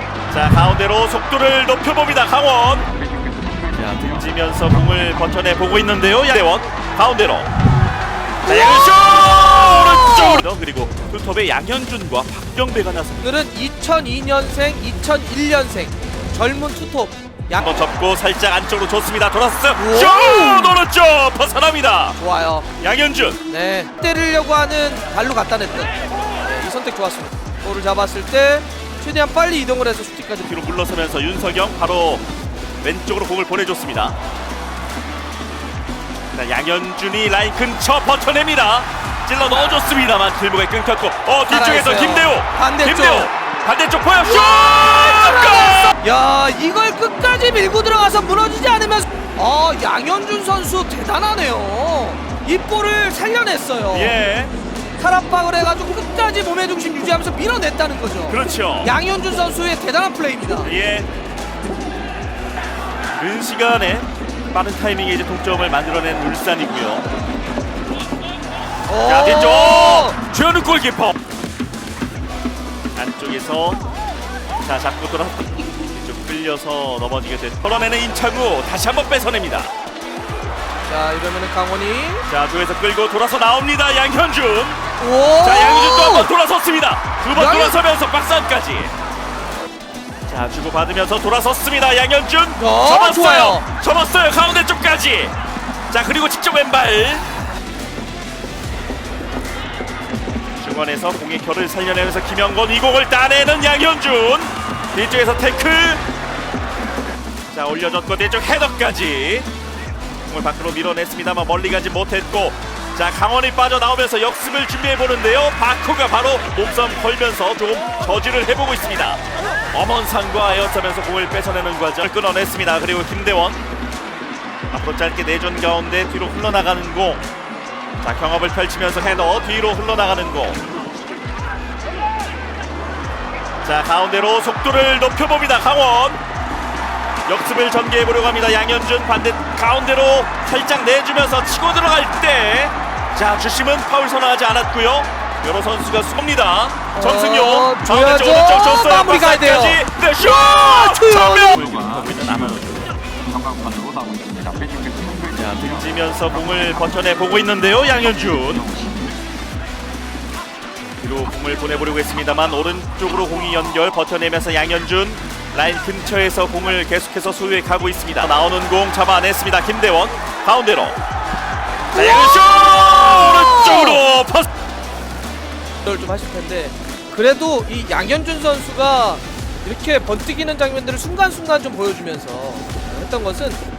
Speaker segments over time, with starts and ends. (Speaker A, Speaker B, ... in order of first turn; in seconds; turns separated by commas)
Speaker A: 0.3-2.9, Speaker B: 3.0-3.7, Speaker A: 3.7-7.5, Speaker A: 8.4-13.3, Speaker C: 8.4-10.4, Speaker C: 13.2-17.8, Speaker A: 17.5-22.2, Speaker C: 19.7-20.8, Speaker C: 22.2-22.7, Speaker A: 22.8-23.4, Speaker C: 23.5-30.4, Speaker A: 30.4-32.2, Speaker A: 32.8-34.2, Speaker A: 36.3-46.0, Speaker C: 41.5-43.3, Speaker C: 44.3-54.2, Speaker A: 53.9-54.5, Speaker C: 55.0-60.7, Speaker A: 58.3-58.9, Speaker A: 60.6-61.1, Speaker A: 63.1-67.1, Speaker C: 68.9-70.2, Speaker A: 69.0-71.2, Speaker A: 72.9-73.8, Speaker A: 74.6-79.7, Speaker C: 80.8-82.2, Speaker A: 82.3-84.8, Speaker C: 85.0-86.3, Speaker A: 85.4-88.9, Speaker C: 87.3-87.8, Speaker A: 90.3-95.3, Speaker C: 92.5-93.6, Speaker A: 95.9-97.2, Speaker A: 100.6-106.0, Speaker A: 107.5-109.5, Speaker A: 110.2-123.6, Speaker A: 124.7-127.2, Speaker A: 128.0-130.6, Speaker A: 133.6-136.2, Speaker A: 137.2-152.9, Speaker C: 146.9-151.6, Speaker B: 151.7-152.2, Speaker B: 153.2-155.3, Speaker A: 155.3-158.7, Speaker B: 158.6-159.1, Speaker A: 161.0-171.0, Speaker A: 171.9-174.5, Speaker C: 171.9-174.0, Speaker C: 175.8-183.6